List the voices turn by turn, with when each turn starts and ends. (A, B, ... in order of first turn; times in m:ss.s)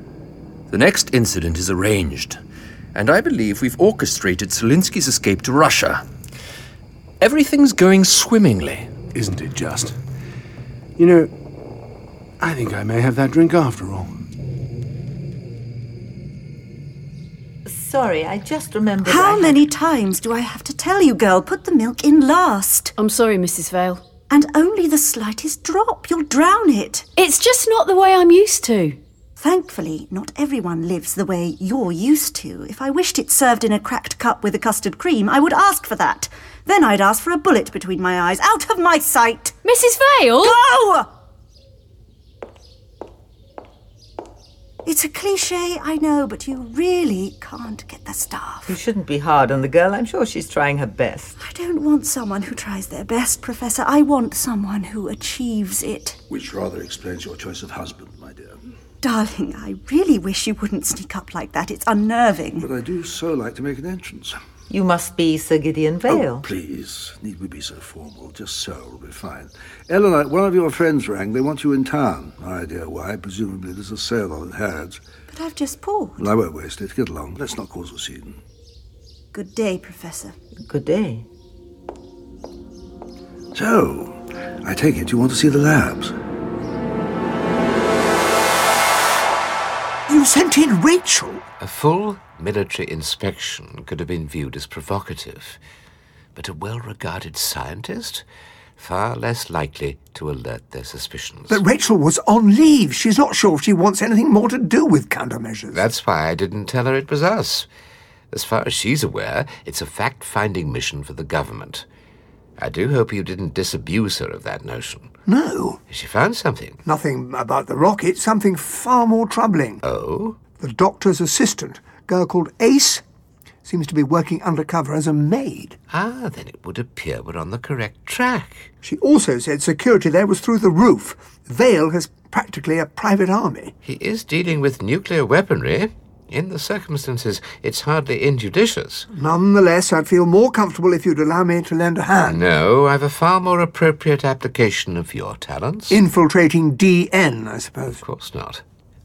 0:00.7-0:02.4 A
0:03.0-0:06.0 A
0:07.2-0:08.9 A
0:09.1-0:09.9 B
0:11.0-0:11.3 B
0:12.4-0:14.1 B
0:17.7-0:19.6 C
0:19.0-0:22.9 D
0:23.0-0:24.0 E
0:24.3-0:27.1 D
0:27.2-0:29.0 E
0:29.4-0:39.6 D
0:39.6-0:40.6 E
0:40.4-0:41.1 D
0:44.8-0:48.8 D
0:48.7-0:51.4 C
0:51.4-0:56.2 D
0:56.3-0:58.6 F
0:59.0-1:02.7 D
1:02.6-1:04.4 F
1:04.7-1:06.5 C
1:06.1-1:15.0 F
1:15.3-1:16.3 D
1:16.2-1:18.4 F
1:19.3-1:20.4 D
1:20.7-1:21.2 C
1:23.5-1:26.1 F
1:30.1-1:31.4 G
1:31.6-1:35.6 H
1:36.4-1:38.2 H
1:38.8-1:41.6 H
1:41.5-1:45.8 G
1:45.7-1:47.7 H
1:48.3-1:51.8 H
1:52.6-1:55.1 H
1:55.3-1:55.8 G
1:55.9-1:56.8 H
1:56.8-1:59.8 G
1:59.8-2:00.4 H
2:00.6-2:03.0 G
2:03.6-2:05.8 G
2:05.9-2:08.7 H
2:08.8-2:13.7 G
2:13.8-2:19.1 H
2:19.1-2:22.4 G
2:22.3-2:26.0 H
2:25.9-2:28.0 G
2:28.0-2:28.6 H